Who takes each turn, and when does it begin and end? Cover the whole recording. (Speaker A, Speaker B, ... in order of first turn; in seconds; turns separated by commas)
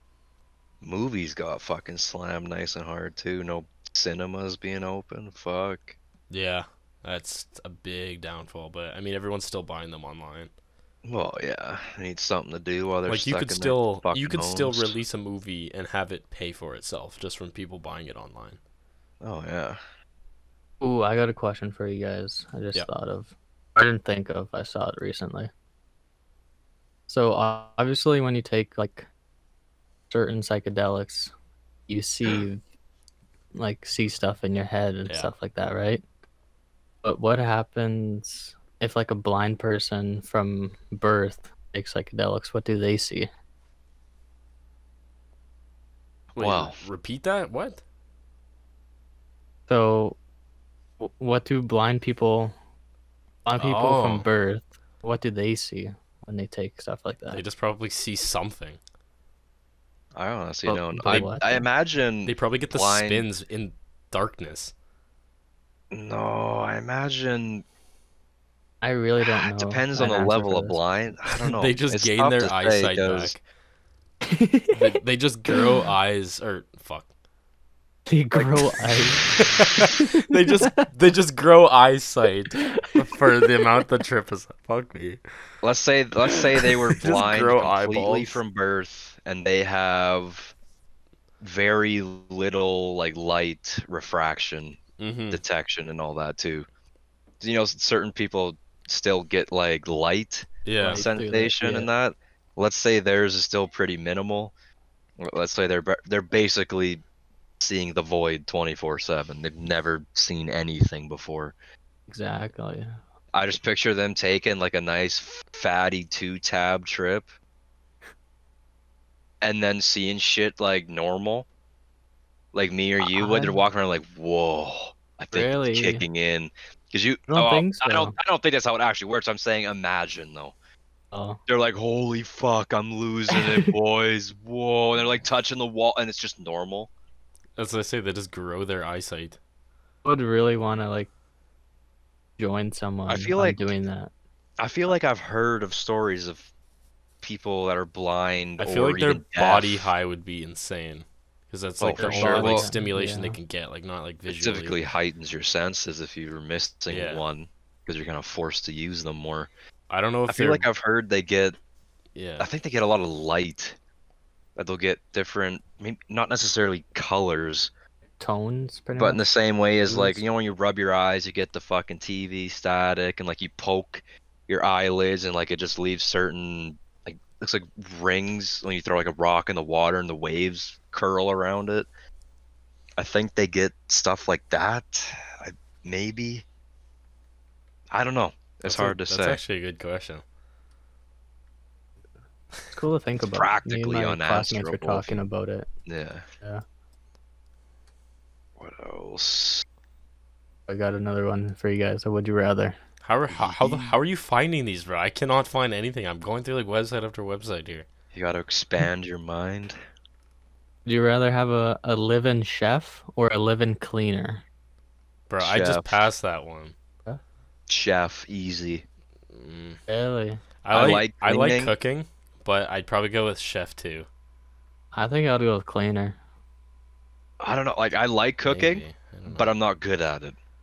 Speaker A: 0.8-6.0, Speaker B: 6.3-10.5, Speaker A: 11.0-15.0, Speaker B: 13.1-18.6, Speaker A: 19.2-19.8, Speaker C: 20.8-25.5, Speaker C: 27.1-29.1, Speaker C: 30.1-31.3, Speaker C: 31.9-32.6, Speaker C: 33.5-36.0, Speaker C: 37.0-43.3, Speaker B: 46.3-47.8, Speaker A: 46.4-46.8, Speaker C: 49.7-50.2, Speaker C: 51.0-52.5, Speaker C: 53.4-57.4, Speaker B: 53.5-54.3, Speaker B: 57.3-58.8, Speaker A: 60.1-63.3, Speaker C: 60.7-61.6, Speaker B: 61.0-61.3, Speaker B: 62.2-64.7, Speaker A: 65.9-67.6, Speaker C: 68.8-70.8, Speaker A: 69.5-73.3, Speaker B: 71.4-73.4, Speaker C: 74.2-74.8, Speaker B: 74.7-77.1, Speaker C: 78.0-79.3, Speaker B: 79.3-85.2, Speaker C: 79.9-80.8, Speaker C: 82.6-82.9, Speaker A: 85.6-90.5, Speaker B: 86.4-88.4, Speaker A: 91.4-94.8, Speaker B: 95.0-95.4, Speaker A: 95.3-96.7, Speaker A: 97.4-104.5, Speaker B: 100.6-101.0, Speaker C: 100.8-101.9, Speaker A: 105.2-107.0, Speaker A: 107.6-111.5, Speaker C: 112.1-113.0, Speaker A: 113.3-117.3, Speaker A: 119.4-121.5, Speaker A: 122.5-130.5, Speaker C: 123.0-123.6, Speaker C: 125.3-126.0, Speaker C: 127.3-128.1, Speaker C: 131.1-131.4, Speaker A: 131.5-136.9, Speaker C: 133.3-133.7, Speaker B: 137.6-139.4, Speaker C: 140.0-141.1, Speaker C: 142.4-144.1, Speaker A: 143.1-143.7, Speaker A: 144.6-146.5, Speaker A: 147.2-149.9, Speaker B: 148.6-154.8, Speaker A: 151.8-152.7, Speaker C: 152.0-153.4, Speaker A: 154.3-159.5, Speaker B: 156.9-157.2, Speaker B: 159.9-160.7, Speaker A: 160.3-161.6, Speaker B: 162.1-162.5, Speaker A: 162.4-163.8, Speaker A: 164.6-167.7, Speaker C: 168.2-169.2, Speaker A: 169.0-181.9, Speaker C: 169.8-170.2, Speaker A: 183.0-186.4, Speaker A: 187.9-189.4, Speaker B: 188.7-190.2, Speaker C: 192.7-195.7, Speaker A: 193.2-195.3, Speaker A: 195.8-196.2, Speaker A: 198.6-199.6, Speaker C: 200.7-202.8, Speaker B: 203.0-207.8, Speaker A: 203.3-204.0, Speaker A: 208.1-209.8, Speaker C: 210.8-214.4, Speaker B: 215.3-216.7, Speaker A: 215.4-216.0, Speaker A: 217.7-218.8, Speaker B: 219.3-219.8, Speaker C: 219.9-220.4, Speaker B: 220.6-224.1, Speaker A: 220.7-221.7, Speaker C: 224.9-226.2, Speaker A: 227.4-230.3, Speaker B: 228.5-229.5